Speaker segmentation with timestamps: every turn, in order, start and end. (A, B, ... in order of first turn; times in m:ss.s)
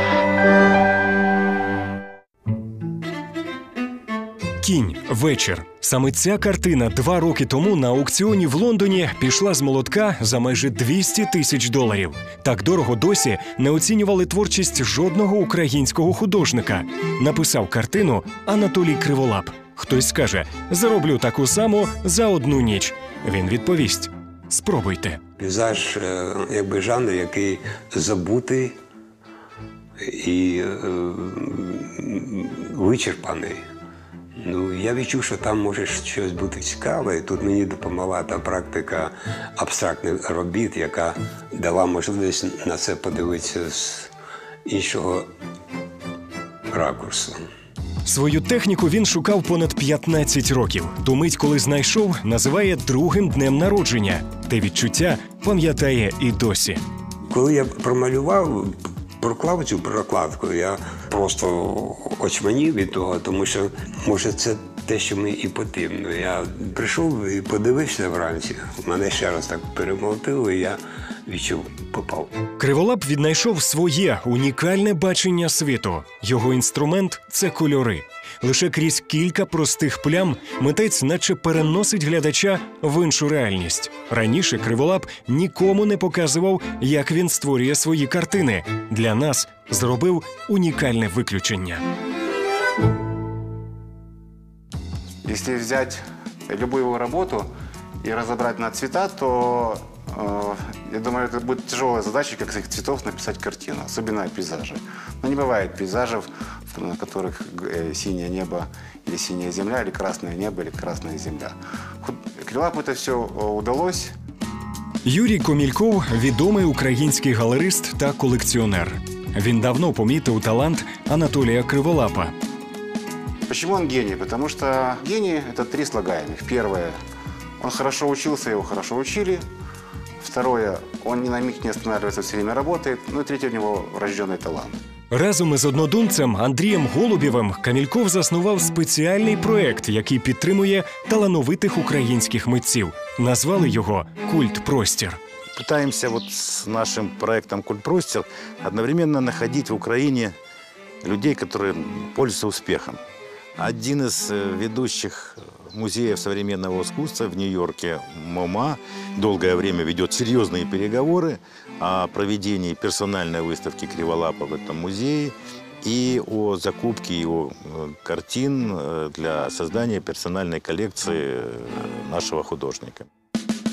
0:04.6-0:25.2 A
0:25.4-0:28.8 B
0:30.0-0:33.6 B
0:34.4-0:44.1 B
0:44.6-0:45.3 B
0:46.7-0:47.4 B
0:48.0-0:56.8 A
0:57.2-1:12.5 B
1:12.6-1:31.8 A
1:35.2-1:37.5 C
1:38.0-1:54.1 C
1:55.0-2:02.3 A
2:03.5-2:07.0 C
2:07.6-2:09.4 C
2:10.2-2:14.8 C
2:15.1-2:25.2 A
2:25.6-2:30.3 D
2:31.0-2:33.0 D
2:33.6-2:53.1 D